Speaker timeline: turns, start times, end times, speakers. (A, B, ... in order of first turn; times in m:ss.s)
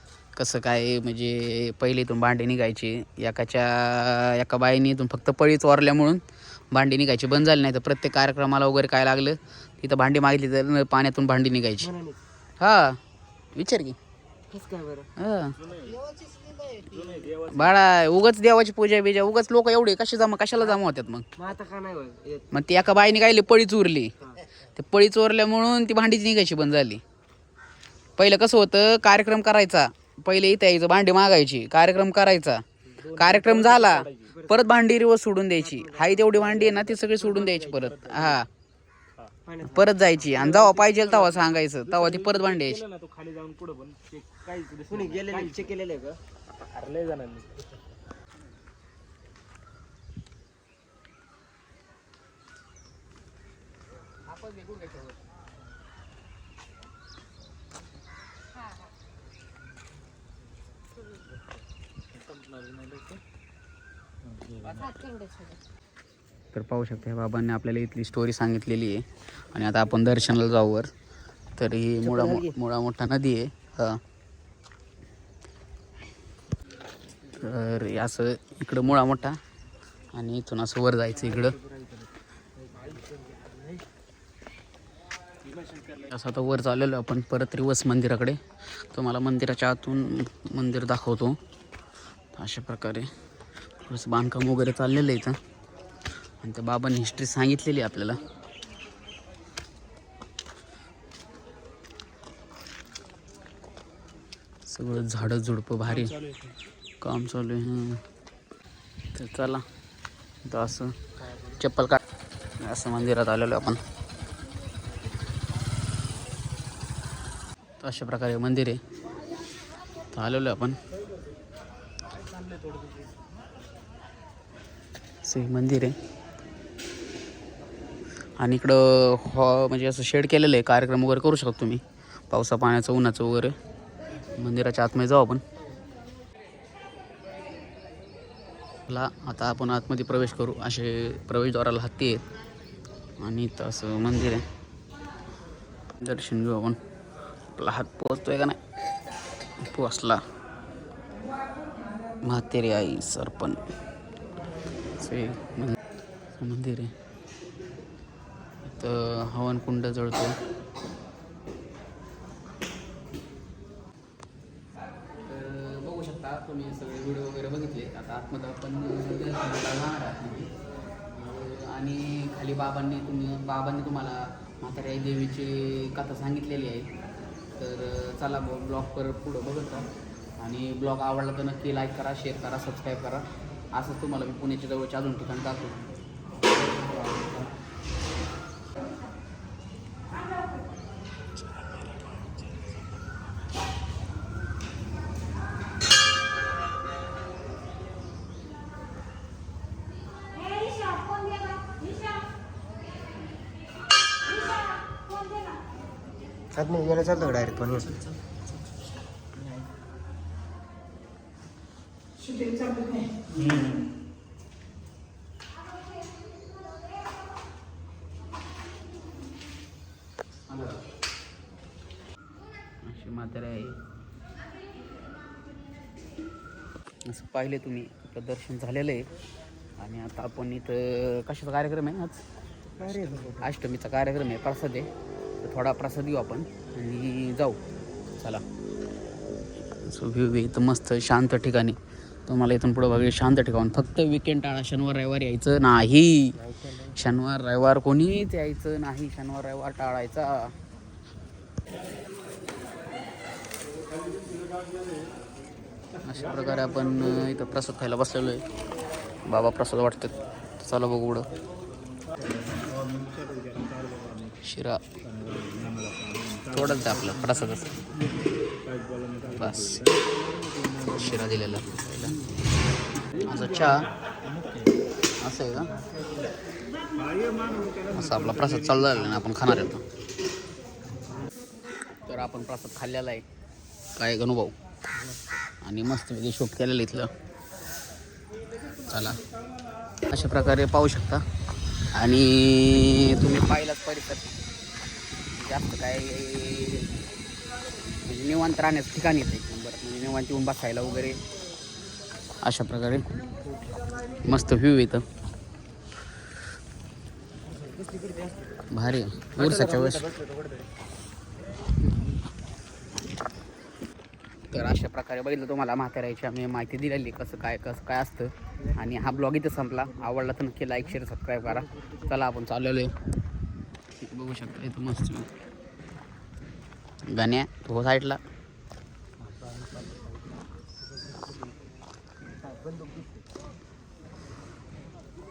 0:00.4-0:11.9 A
0:11.8-0:12.2 B
0:12.6-0:13.0 A
0:13.6-0:14.0 A
0:14.5-0:15.1 B
0:15.2-0:15.6 A
0:15.6-0:16.0 C
0:16.0-0:17.3 B
0:16.8-0:17.8 C
0:17.5-0:21.3 A
0:21.4-0:22.5 B
0:22.5-0:24.1 A
0:24.8-0:27.0 A
0:28.2-0:32.6 A
0:33.0-0:34.4 C
0:33.2-0:38.5 A
0:34.3-0:34.6 B
0:35.6-0:37.8 B
0:36.5-0:38.4 C
0:39.5-0:40.3 B
0:39.7-0:42.8 A
0:40.3-0:45.7 C
0:44.9-0:46.2 B
0:46.7-0:47.6 C
0:54.4-0:54.9 A
1:02.1-1:03.2 C
1:04.2-1:05.0 C
1:06.5-1:10.9 A
1:11.6-1:14.0 A
1:12.1-1:12.5 B
1:17.3-1:19.4 A
1:20.1-1:21.6 A
1:21.2-1:23.8 B
1:25.4-1:26.1 C
1:26.1-1:28.4 A
1:28.9-1:31.4 A
1:32.4-1:33.1 A
1:33.9-1:35.4 A
1:36.4-1:38.2 A
1:44.7-1:46.2 A
1:45.9-1:46.5 C
1:47.0-1:48.0 A
1:49.1-1:49.6 A
1:50.5-1:51.0 A
1:51.6-1:52.0 A
1:52.6-1:53.8 A
1:57.8-1:58.8 A
2:00.1-2:00.8 A
2:02.2-2:03.2 C
2:05.2-2:06.0 A
2:08.4-2:13.6 A
2:14.4-2:15.4 A
2:18.9-2:22.2 A
2:23.2-2:24.4 A
2:26.0-2:26.8 A
2:27.6-2:28.6 A
2:29.6-2:30.2 A
2:32.2-2:33.6 A
2:35.0-2:35.8 A
2:36.4-2:36.9 A
2:38.6-2:40.4 A
2:45.2-2:50.5 A
2:51.1-2:56.9 A
2:57.6-3:05.9 A
3:26.6-3:27.9 B
3:42.8-3:43.8 A
3:47.0-3:49.1 A
3:49.8-3:52.2 A
3:52.8-3:53.5 B
3:53.4-3:54.9 A
3:55.4-3:57.6 A
3:58.2-3:58.4 A
3:59.8-4:06.4 A
4:06.5-4:06.8 B
4:06.9-4:10.5 A
4:16.0-4:18.4 A
4:19.3-4:21.3 A
4:23.0-4:24.1 C
4:24.4-4:24.8 A
4:25.2-4:26.4 C
4:26.5-4:27.8 A
4:29.0-4:29.9 C
4:29.3-4:29.9 A
4:30.6-4:31.0 C
4:30.9-4:32.3 A
4:33.1-4:34.7 C
4:33.2-4:33.8 A
4:35.2-4:35.8 A
4:37.9-4:39.8 A
4:42.1-4:43.2 A
4:44.0-4:44.6 A
4:45.6-4:47.1 A
4:48.9-4:49.2 A
4:50.1-4:51.2 A
4:51.9-4:54.3 A
4:55.3-4:56.9 A
4:58.0-5:01.2 A
5:02.4-5:03.0 A
5:04.2-5:05.0 A
5:07.4-5:08.6 B
5:08.7-5:10.1 A
5:09.4-5:10.7 B
5:14.5-5:23.0 A
5:18.6-5:18.9 B
5:21.5-5:22.2 B
5:24.0-5:25.3 A
5:27.1-5:28.2 A
5:29.2-5:31.6 B
5:32.4-5:33.2 B